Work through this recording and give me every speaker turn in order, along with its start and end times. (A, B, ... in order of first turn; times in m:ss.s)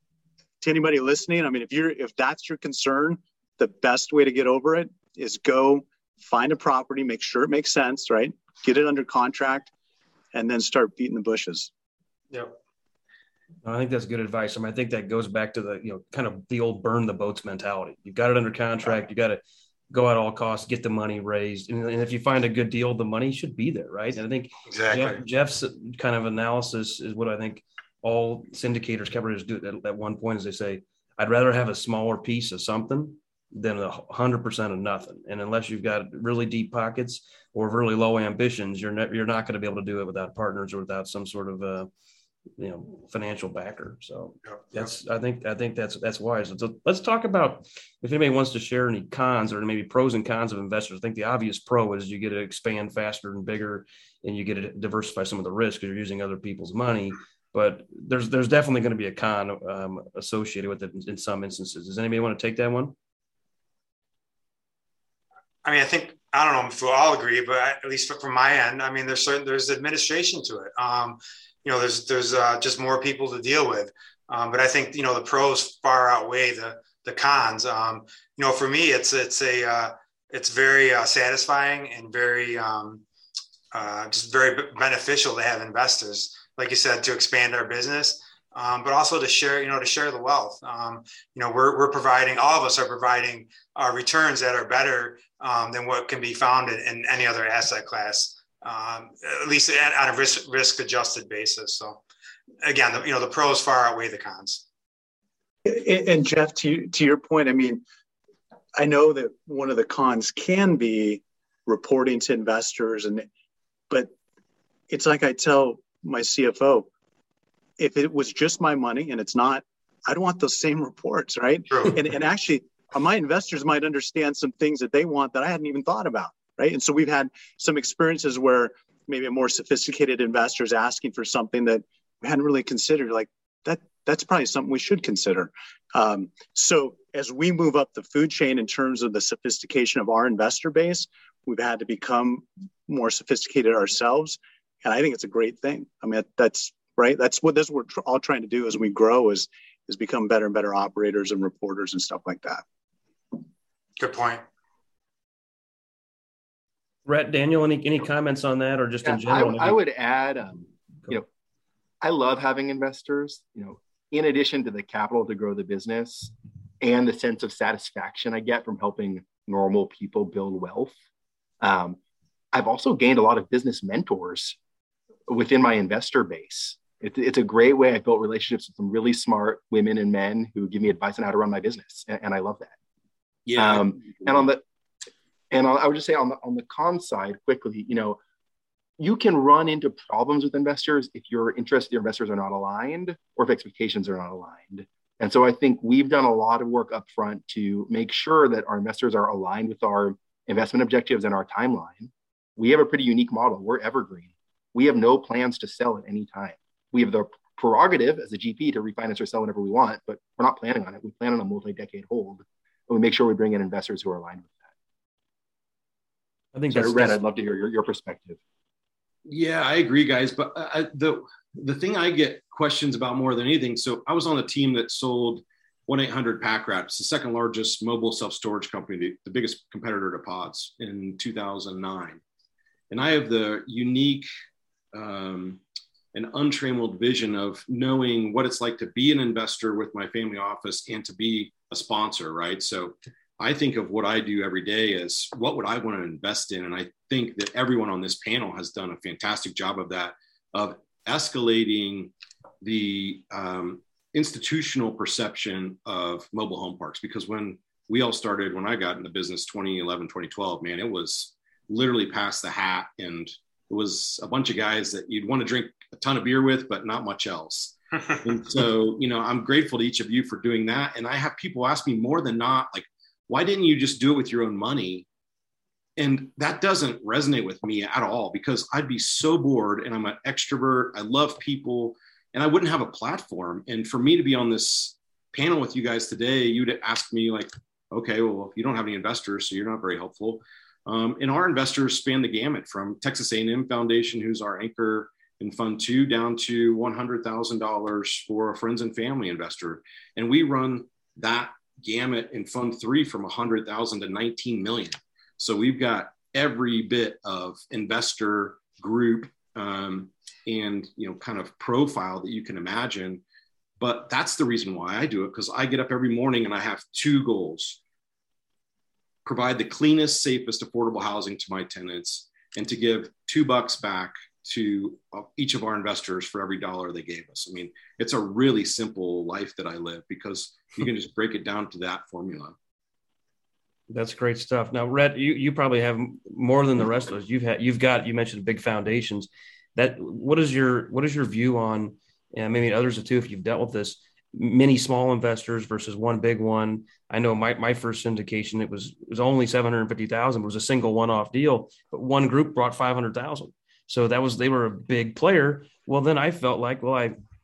0:00.6-0:09.7 A
0:10.3-0:11.7 A
0:12.3-0:12.6 B
0:13.6-0:41.9 C
0:24.7-0:25.2 B
0:42.6-1:02.9 C
1:05.6-1:23.0 B
1:23.7-1:42.0 B
1:42.6-1:44.6 B
1:45.6-1:47.8 A
1:48.8-1:53.3 A
1:54.9-1:56.9 A
1:57.8-2:32.6 A
2:34.0-2:34.4 B
2:37.0-2:39.8 C
2:39.0-2:41.3 D
2:42.0-2:50.9 D
2:51.6-2:52.0 D
2:52.5-2:54.6 D
2:55.3-3:02.7 D
3:03.5-3:03.8 E
3:03.6-3:04.6 D
3:05.5-3:08.2 D
3:09.0-3:34.7 D
3:36.5-3:37.2 C
3:36.7-3:38.4 D
3:39.2-3:52.2 E
3:52.9-3:54.3 E
3:54.9-3:55.6 E
3:56.1-4:35.0 E
4:36.0-5:13.2 E
5:13.8-5:17.8 E
5:19.2-5:32.6 E
5:33.9-5:57.2 C